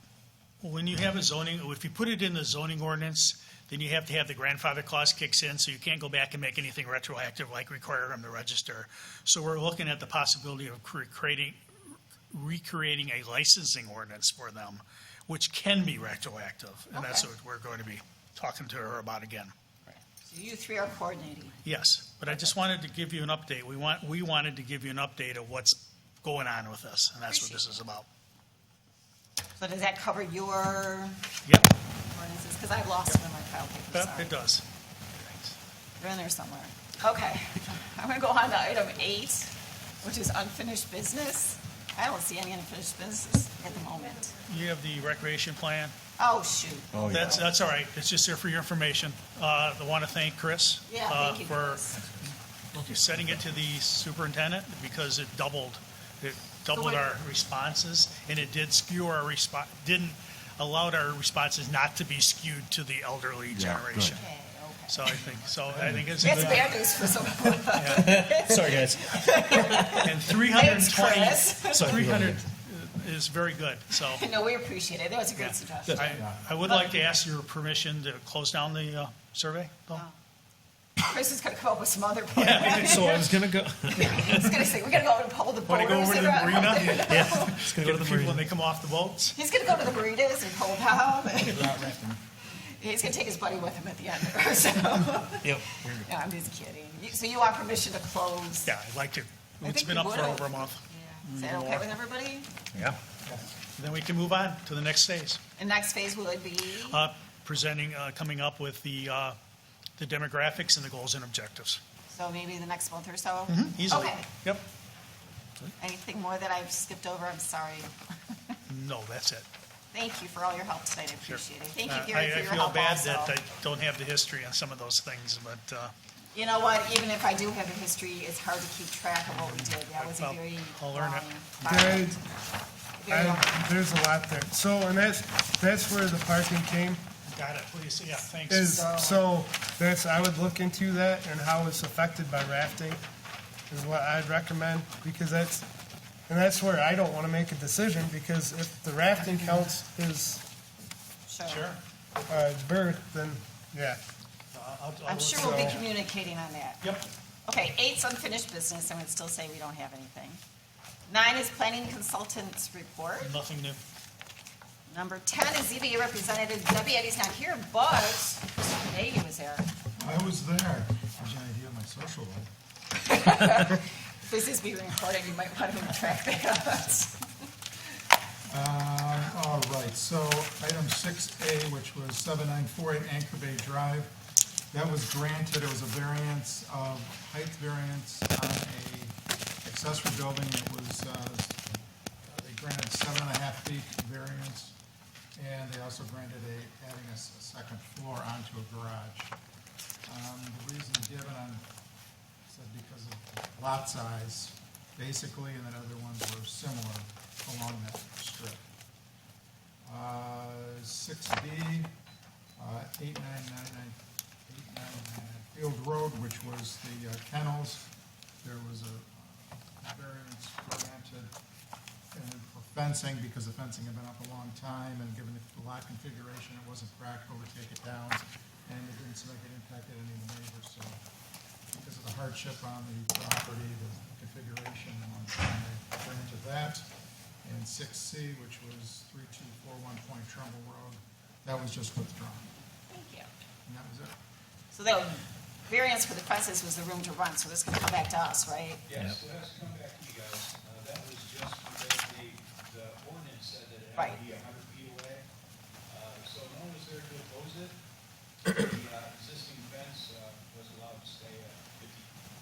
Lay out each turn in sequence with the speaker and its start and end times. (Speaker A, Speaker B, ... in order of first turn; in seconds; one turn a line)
Speaker A: 0.6-11.6
Speaker A: 12.3-19.5
Speaker B: 16.9-17.3
Speaker B: 20.3-21.6
Speaker A: 21.6-28.1
Speaker B: 22.2-22.5
Speaker B: 27.3-27.8
Speaker B: 29.6-31.2
Speaker A: 31.4-31.7
Speaker B: 32.0-34.4
Speaker A: 33.9-35.6
Speaker B: 36.0-44.4
Speaker A: 44.5-45.9
Speaker B: 46.2-47.5
Speaker C: 46.9-47.4
Speaker A: 47.0-51.8
Speaker B: 50.9-52.0
Speaker A: 52.7-64.2
Speaker B: 56.7-57.1
Speaker C: 63.5-64.2
Speaker B: 64.0-65.2
Speaker A: 64.9-67.0
Speaker C: 65.8-66.7
Speaker B: 66.2-72.0
Speaker A: 67.7-68.1
Speaker C: 67.9-69.8
Speaker A: 70.0-74.3
Speaker C: 71.7-72.4
Speaker B: 74.1-77.0
Speaker A: 75.4-80.0
Speaker D: 76.1-76.4
Speaker B: 81.0-83.4
Speaker A: 82.3-83.2
Speaker C: 82.5-84.6
Speaker B: 83.9-87.7
Speaker A: 85.7-89.3
Speaker C: 87.0-88.5
Speaker B: 89.3-91.9
Speaker C: 91.5-91.9
Speaker B: 92.5-98.7
Speaker C: 95.4-96.1
Speaker A: 98.7-102.0
Speaker B: 99.6-102.5
Speaker A: 103.8-105.4
Speaker B: 105.6-107.1
Speaker A: 106.8-109.4
Speaker A: 110.0-111.8
Speaker B: 112.1-114.3
Speaker A: 113.5-114.6
Speaker B: 115.8-118.6
Speaker A: 118.7-119.5
Speaker B: 119.9-123.3
Speaker A: 121.2-125.9
Speaker B: 126.3-132.2
Speaker A: 129.4-131.3
Speaker E: 131.6-132.2
Speaker B: 133.0-133.5
Speaker E: 133.1-137.0
Speaker A: 137.3-139.1
Speaker E: 138.5-143.0
Speaker E: 143.7-145.7
Speaker E: 146.3-150.4
Speaker A: 149.3-149.6
Speaker B: 151.3-151.7
Speaker A: 151.5-151.8
Speaker E: 152.3-154.0
Speaker A: 154.5-155.8
Speaker B: 155.1-156.8
Speaker E: 155.1-155.8
Speaker A: 156.8-157.1
Speaker B: 157.5-160.4
Speaker B: 161.1-163.3
Speaker A: 163.2-163.8
Speaker B: 164.9-169.7
Speaker D: 170.0-172.5
Speaker B: 173.0-177.2
Speaker D: 178.5-184.1
Speaker D: 184.7-191.6
Speaker D: 192.3-194.8
Speaker D: 195.3-199.3
Speaker D: 200.1-201.6
Speaker D: 202.5-208.7
Speaker D: 209.8-211.9
Speaker D: 212.6-217.9
Speaker D: 218.4-221.3
Speaker D: 222.1-231.0
Speaker D: 231.7-236.8
Speaker D: 237.4-242.5
Speaker B: 242.9-243.3
Speaker D: 243.7-244.1
Speaker B: 244.7-248.8
Speaker F: 248.9-255.3
Speaker F: 255.9-257.8
Speaker F: 258.5-262.1